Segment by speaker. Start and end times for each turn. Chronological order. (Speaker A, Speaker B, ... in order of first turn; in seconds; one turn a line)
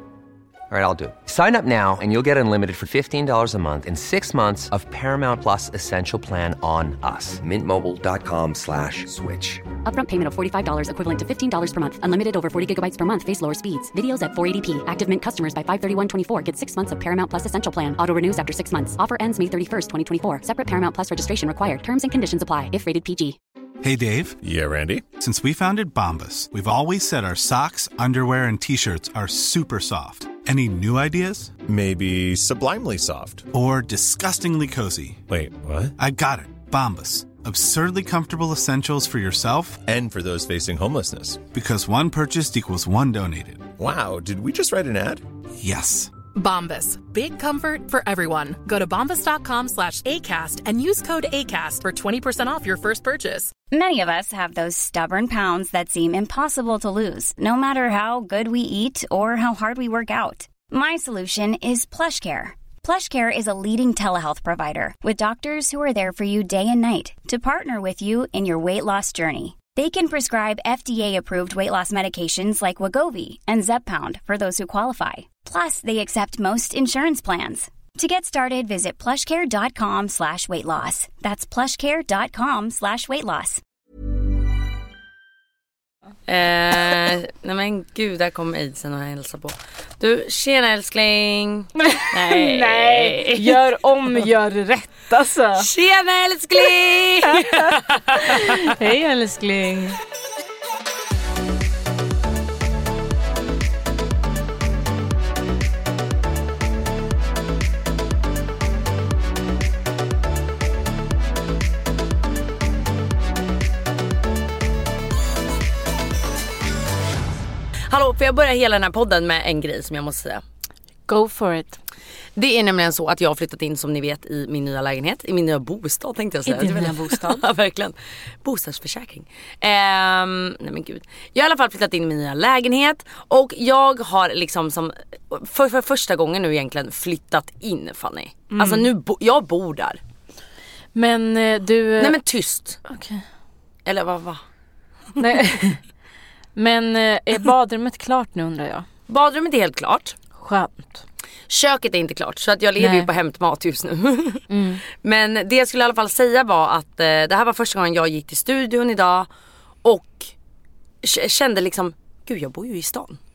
Speaker A: 0.7-9.7
Speaker B: 9.8-23.4
Speaker C: 23.8-24.4
Speaker D: 24.4-25.1
Speaker C: 25.2-31.5
Speaker D: 31.6-33.5
Speaker C: 33.5-35.2
Speaker D: 35.3-36.0
Speaker C: 36.0-39.8
Speaker D: 39.9-41.5
Speaker C: 41.5-43.7
Speaker D: 43.8-45.2
Speaker C: 45.6-46.1
Speaker E: 46.3-53.5
Speaker F: 53.7-83.6
Speaker G: 86.3-93.7
Speaker H: 91.8-95.7
Speaker G: 95.6-98.4
Speaker H: 97.3-100.0
Speaker G: 117.9-120.4
Speaker H: 121.1-121.8
Speaker G: 122.4-140.0
Speaker H: 126.5-127.4
Speaker H: 138.5-138.9
Speaker H: 140.9-142.2
Speaker G: 142.0-142.8
Speaker H: 142.9-143.2
Speaker G: 143.9-144.4
Speaker H: 145.2-145.8
Speaker H: 146.6-148.9
Speaker G: 149.1-150.2
Speaker H: 150.3-151.0
Speaker G: 151.5-159.3
Speaker H: 152.8-153.1
Speaker H: 154.5-154.8
Speaker G: 159.8-160.3
Speaker G: 161.0-163.2